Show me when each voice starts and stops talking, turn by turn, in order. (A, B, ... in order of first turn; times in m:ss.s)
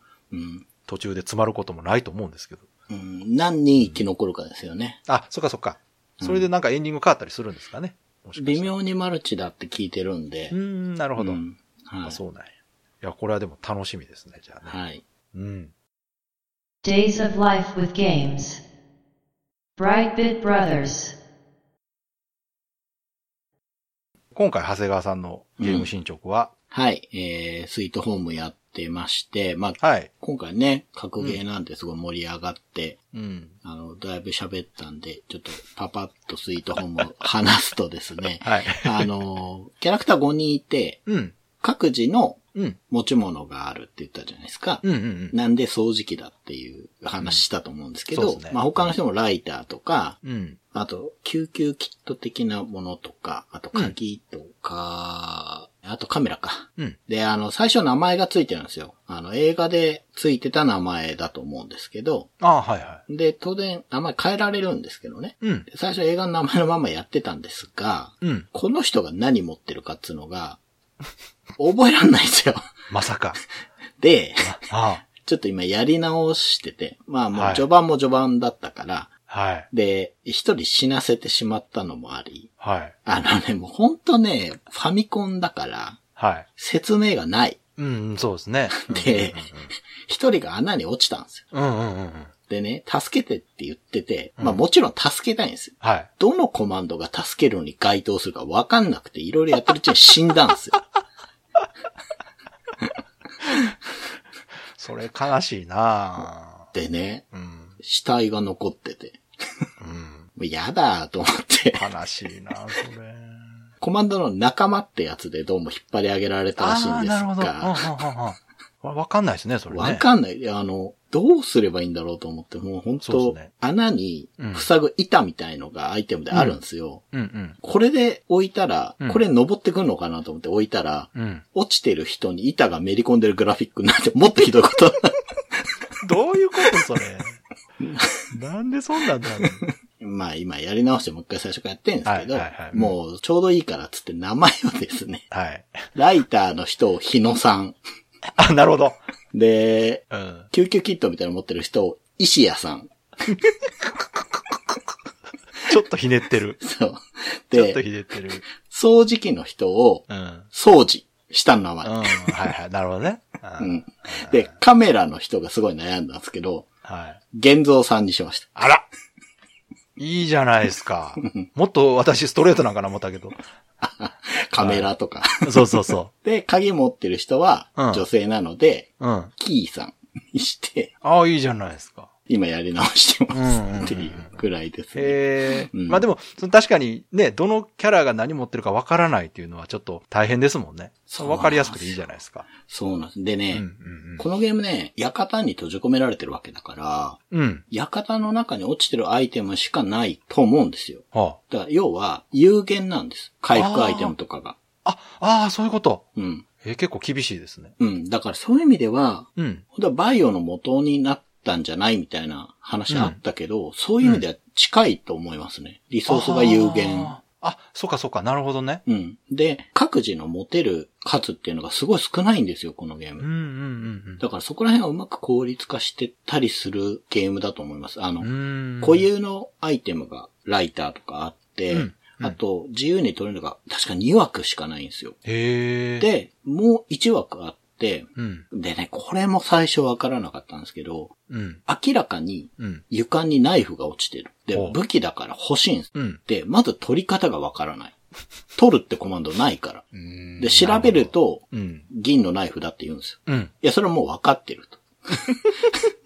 0:00.3-0:00.6 A
0:00.9-0:02.7 B
0:02.9-0:05.0 A
0:05.1-0:08.7 B
0:06.2-0:06.5 A
0:08.4-0:10.6 A
0:10.5-0:11.4 B
0:11.2-0:12.2 A
0:12.0-0:14.8 B
0:14.6-0:15.0 A
0:15.3-0:15.7 B
0:16.8-0:18.6 C
0:19.8-0:21.2 C
0:24.3-0:26.5 B
0:25.6-0:25.9 A
0:26.7-0:33.0 A
0:29.8-0:30.1 B
0:33.1-0:33.5 B
0:33.6-0:50.2 A
0:38.4-0:39.1 B
0:41.1-0:41.3 B
0:44.8-0:45.3 B
0:48.1-0:48.9 B
0:50.2-0:50.6 B
0:50.7-1:02.3 A
1:02.4-1:03.0 B
1:03.1-1:10.6 A
1:05.4-1:05.7 B
1:08.2-1:08.5 B
1:11.6-1:12.7 A
1:12.9-1:13.4 B
1:14.0-1:19.1 A
1:14.4-1:15.0 B
1:17.3-1:17.6 B
1:19.3-1:19.7 B
1:19.7-1:22.5 A
1:22.6-1:22.9 B
1:23.0-1:26.0 A
1:26.2-1:26.5 B
1:26.6-1:27.6 A
1:27.8-1:29.7 B
1:28.7-1:31.5 A
1:31.5-1:32.3 B
1:32.5-1:40.8 A
1:35.8-1:36.1 B
1:44.8-1:46.7 B
1:46.7-1:47.3 A
1:47.3-1:47.8 B
1:47.8-1:49.2 A
1:49.8-1:50.3 B
1:50.4-1:51.9 A
1:51.8-1:53.6 B
1:53.8-1:58.0 A
1:56.6-2:00.0 B
1:59.7-2:07.0 A
2:03.0-2:03.5 B
2:04.4-2:04.7 B
2:06.3-2:06.6 B
2:07.1-2:07.6 B
2:07.6-2:15.2 A
2:11.1-2:11.4 B
2:16.0-2:17.4 B
2:17.8-2:18.1 A
2:18.3-2:19.6 B
2:19.4-2:25.3 A
2:22.0-2:22.9 B
2:25.3-2:25.9 B
2:25.9-2:27.8 A
2:28.4-2:29.0 B
2:29.3-2:32.9 A
2:30.1-2:30.5 B
2:35.6-2:36.6 B
2:36.6-2:37.8 A
2:37.5-2:38.4 B
2:38.5-2:42.4 A
2:40.1-2:40.5 B
2:41.8-2:44.5 B
2:43.6-2:46.7 A
2:46.8-2:47.2 B
2:47.3-2:48.6 A
2:48.6-2:48.8 B
2:50.0-2:53.4 B
2:53.8-3:00.9 A
2:54.6-2:54.9 B
2:55.4-2:56.1 B
2:57.8-2:58.0 B
2:59.0-2:59.3 B
3:01.0-3:02.1 B
3:02.3-3:06.0 A
3:03.3-3:04.3 B
3:04.9-3:12.5 B
3:11.1-3:12.0 A
3:12.6-3:13.7 A
3:13.5-3:14.2 B
3:14.2-3:24.6 A
3:17.3-3:17.6 B
3:21.1-3:21.4 B
3:23.5-3:24.1 B
3:24.8-3:26.0 B
3:26.2-3:26.4 A
3:26.6-3:27.7 B
3:27.8-3:37.1 A
3:29.4-3:29.6 B
3:32.9-3:33.2 B
3:36.1-3:38.8 B
3:38.8-3:43.3 A
3:43.2-3:44.2 B
3:44.2-3:55.2 A
3:48.2-3:49.1 B
3:51.7-3:52.4 B
3:55.2-3:56.1 B
3:56.0-4:01.1 A
3:58.2-3:58.4 B
4:01.3-4:01.6 B
4:01.6-4:08.0 A
4:02.6-4:02.8 B
4:05.9-4:06.2 B
4:08.5-4:15.4 A
4:09.9-4:11.9 B
4:13.3-4:13.5 B